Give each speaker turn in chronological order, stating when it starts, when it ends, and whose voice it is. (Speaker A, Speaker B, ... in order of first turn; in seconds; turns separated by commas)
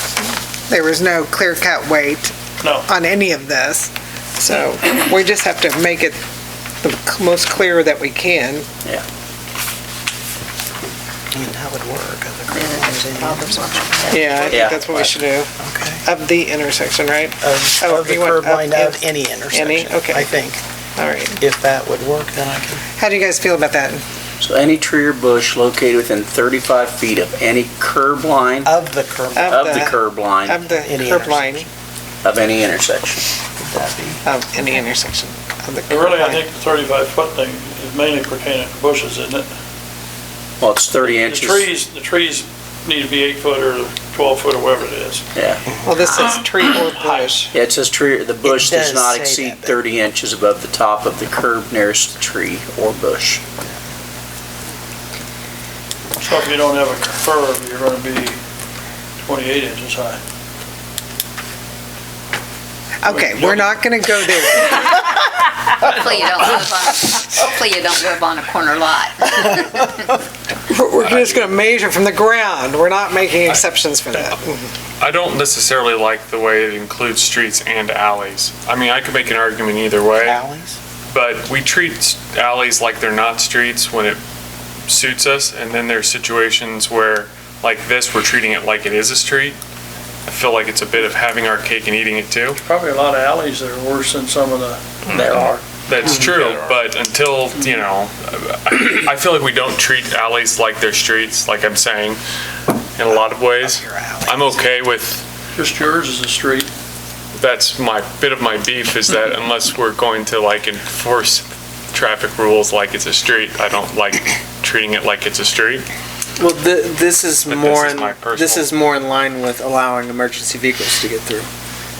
Speaker A: 0.7-6.2, Speaker B: 2.6-2.9, Speaker A: 6.8-8.7, Speaker C: 11.3-14.2, Speaker D: 12.5-15.1, Speaker A: 14.1-15.5, Speaker C: 15.6-16.0, Speaker A: 16.0-20.4, Speaker C: 17.4-20.6, Speaker A: 21.0-21.4, Speaker C: 21.4-22.8, Speaker A: 23.0-24.0, Speaker E: 24.4-28.7, Speaker C: 28.6-29.6, Speaker A: 29.3-31.7, Speaker E: 29.5-30.6, Speaker C: 30.8-31.5, Speaker E: 32.2-33.3, Speaker C: 33.6-34.2, Speaker A: 34.2-36.4, Speaker B: 35.9-39.5, Speaker E: 40.6-41.6, Speaker B: 41.1-45.2, Speaker E: 45.3-45.6, Speaker A: 45.8-47.5, Speaker E: 47.5-53.4, Speaker C: 48.5-49.8, Speaker B: 56.2-58.4, Speaker B: 59.2-60.2, Speaker A: 63.0-65.2, Speaker B: 63.0-63.8, Speaker D: 65.8-69.7, Speaker A: 70.7-74.7, Speaker F: 71.0-71.5, Speaker F: 75.0-80.4, Speaker C: 80.2-80.7, Speaker F: 81.1-84.2, Speaker F: 84.9-89.6, Speaker F: 90.3-92.6, Speaker B: 92.5-94.8, Speaker F: 95.1-102.2, Speaker E: 95.1-95.6, Speaker F: 103.0-105.2, Speaker C: 103.1-104.5, Speaker B: 105.5-106.7, Speaker F: 107.3-115.9, Speaker G: 116.4-121.5, Speaker F: 117.5-118.7